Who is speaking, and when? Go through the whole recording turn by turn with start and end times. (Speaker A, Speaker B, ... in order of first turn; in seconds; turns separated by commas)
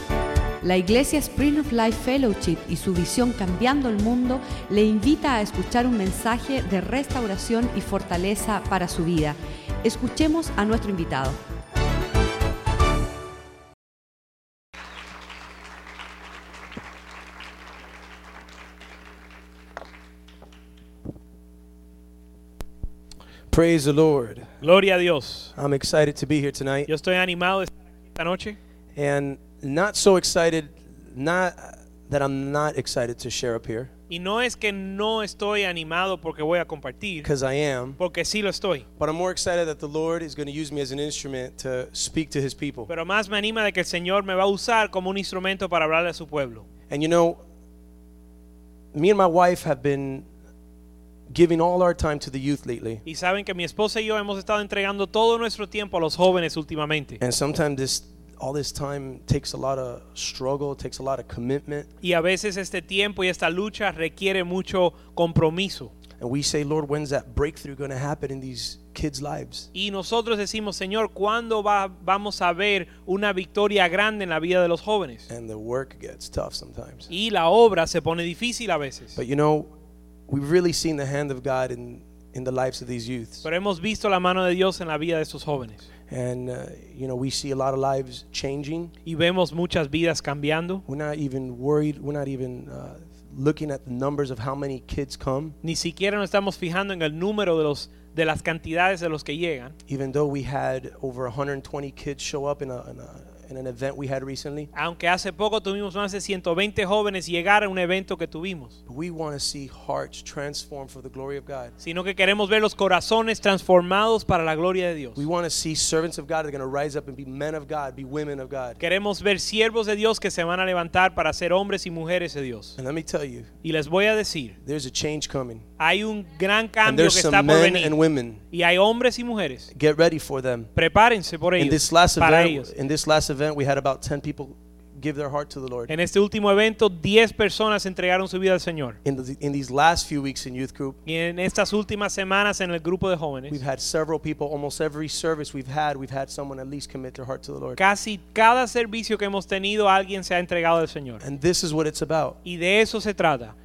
Speaker A: 0.6-11.3, Speaker B: 23.5-24.5, Speaker C: 24.6-25.5, Speaker B: 25.5-26.9, Speaker C: 26.9-28.6, Speaker B: 28.9-33.9, Speaker C: 34.1-37.3, Speaker B: 37.2-38.0, Speaker C: 38.0-38.9, Speaker B: 39.0-42.9, Speaker C: 42.9-46.6, Speaker B: 46.9-47.4, Speaker B: 48.9-50.3, Speaker B: 51.3-53.0, Speaker C: 53.0-57.2, Speaker B: 57.2-61.9, Speaker C: 62.0-65.9, Speaker B: 66.2-69.7, Speaker C: 69.7-75.3, Speaker B: 75.3-77.1, Speaker C: 77.1-79.2, Speaker B: 79.2-79.7, Speaker B: 80.3-83.4, Speaker C: 83.4-85.8, Speaker B: 86.1-88.9, Speaker C: 89.0-90.8, Speaker B: 90.9-95.5, Speaker C: 95.6-99.7, Speaker B: 99.9-104.7, Speaker C: 104.7-108.8, Speaker B: 108.9-111.7, Speaker C: 111.8-115.2, Speaker B: 115.2-118.8, Speaker C: 118.8-122.8, Speaker B: 122.8-123.5, Speaker C: 123.6-124.5, Speaker B: 124.6-125.6, Speaker C: 125.8-127.9, Speaker B: 126.8-128.4, Speaker C: 128.5-129.7, Speaker B: 129.7-130.7, Speaker C: 130.7-132.7, Speaker B: 131.6-135.9, Speaker C: 135.9-139.0, Speaker B: 139.0-141.0, Speaker C: 141.1-143.6, Speaker B: 143.5-147.8, Speaker C: 147.8-151.2, Speaker B: 151.2-152.4, Speaker C: 152.4-153.5